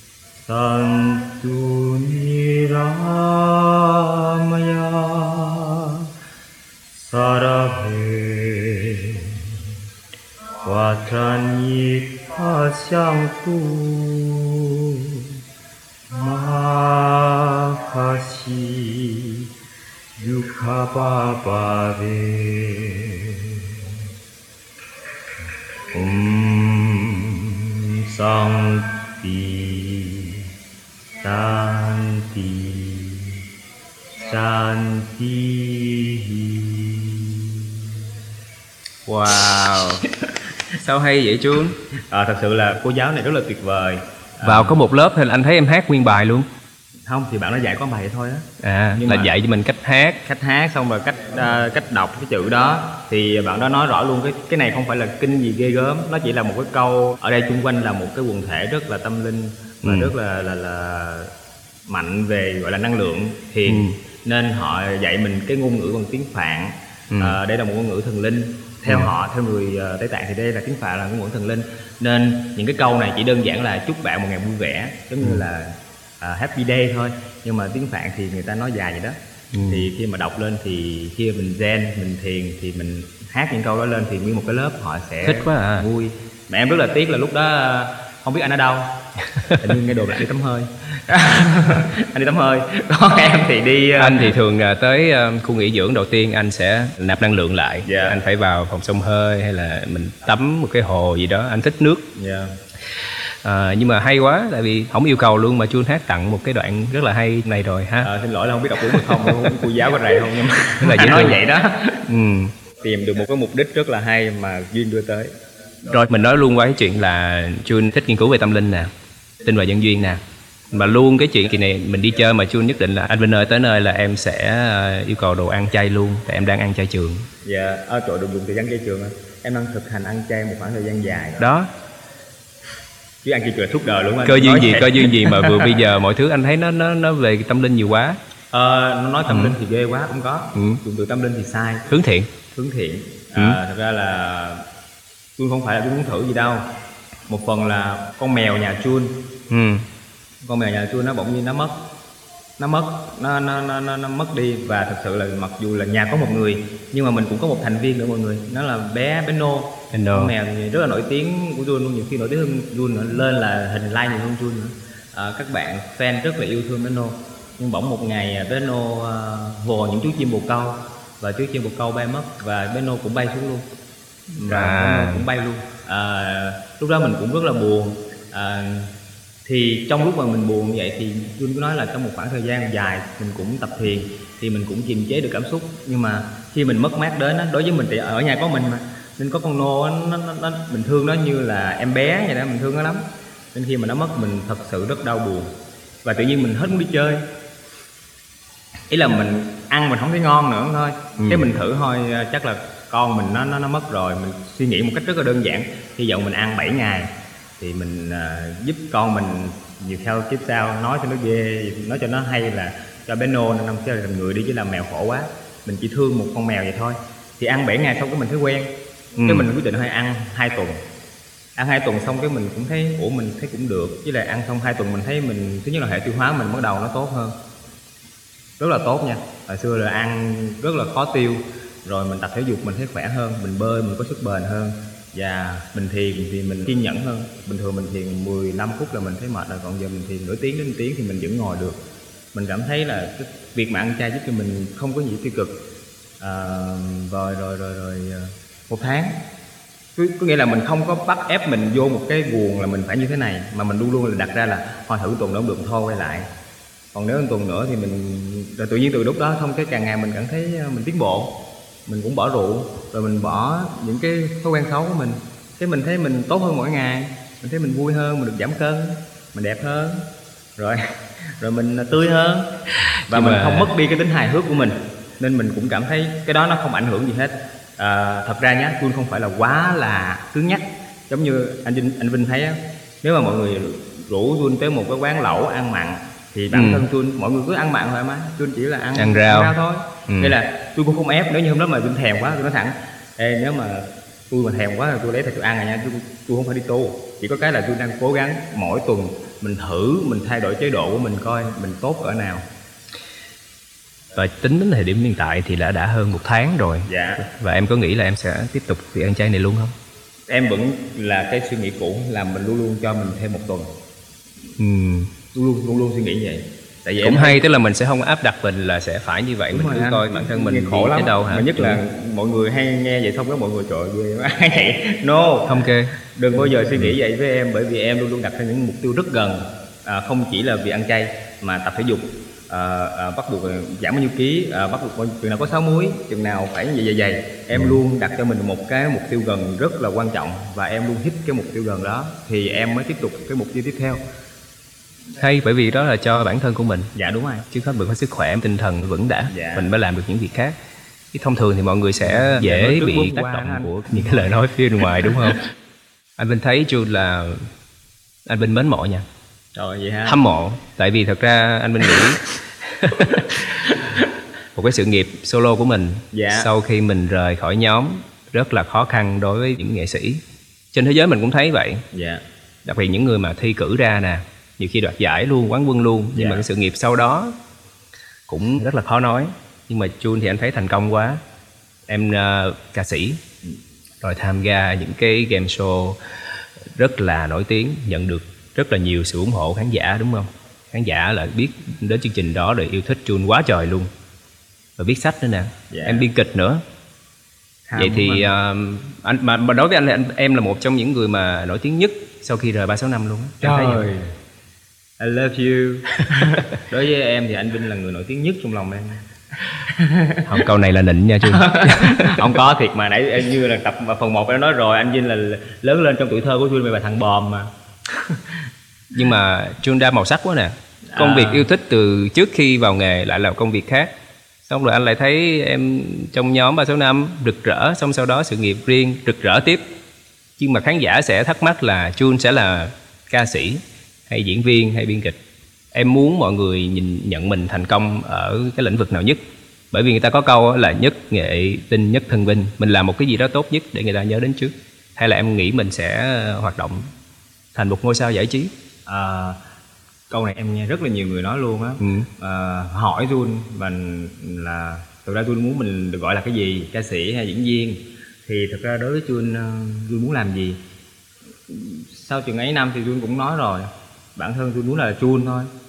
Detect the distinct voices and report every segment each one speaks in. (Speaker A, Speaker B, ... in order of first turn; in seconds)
Speaker A: 0.5-6.0, 7.0-9.5, 10.6-15.2, 16.1-19.4, 20.2-23.9, 25.9-30.4, 31.2-33.4, 34.2-37.8, 39.3-40.1, 42.1-44.8, 47.1-49.3, 50.2-61.3, 61.9-94.3, 97.8-98.2, 102.1-102.5, 108.0-112.0, 112.8-115.3, 127.4-131.4, 133.2-135.8, 138.5-141.9, 142.5-144.6, 145.4-146.7, 147.3-149.1, 150.4-151.8, 152.6-173.7, 174.3-178.9, 179.4-195.5, 196.0-197.2, 198.9-218.7, 219.2-220.8, 221.6-227.3, 228.6-241.8, 242.3-245.5, 246.2-249.1, 249.9-256.3, 256.9-261.3, 261.9-270.0, 270.6-272.5, 273.1-302.4, 306.9-307.2, 310.3-313.7, 315.3-317.4, 319.5-344.0, 346.9-347.5, 349.3-349.7, 352.0-354.3, 359.5-360.2, 366.1-366.5, 371.9-372.2, 376.1-376.4, 395.7-396.1, 397.7-398.3, 403.4-404.1, 405.0-410.4, 411.3-418.4, 420.9-421.5, 448.9-449.4, 450.1-460.6, 461.5-465.5
Speaker B: 39.0-40.0, 40.7-41.8, 44.4-46.5, 48.6-50.2, 59.8-60.1, 63.7-64.0, 67.1-67.4, 79.5-79.9, 85.2-85.9, 94.0-102.0, 102.9-108.1, 108.8-109.5, 110.8-111.4, 112.0-112.5, 115.8-118.9, 119.4-127.3, 131.4-131.7, 134.2-138.2, 139.3-139.5, 140.5-140.8, 141.9-142.3, 149.5-149.8, 159.9-160.3, 174.5-175.2, 201.2-201.6, 219.2-219.5, 273.1-273.7, 286.5-286.8, 288.9-289.5, 290.1-290.4, 304.1-309.7, 314.6-315.1, 317.0-321.8, 325.5-325.9, 345.2-346.9, 347.5-350.5, 351.1-355.4, 356.2-357.5, 358.2-359.0, 360.1-363.7, 364.5-370.2, 370.7-371.8, 372.6-377.3, 378.3-381.2, 381.9-383.2, 384.0-393.9, 394.8-396.6, 397.8-403.9, 410.3-412.4, 418.9-423.9, 424.5-429.6, 430.4-435.2, 435.7-439.2, 439.7-446.9, 447.5-448.5, 451.8-452.1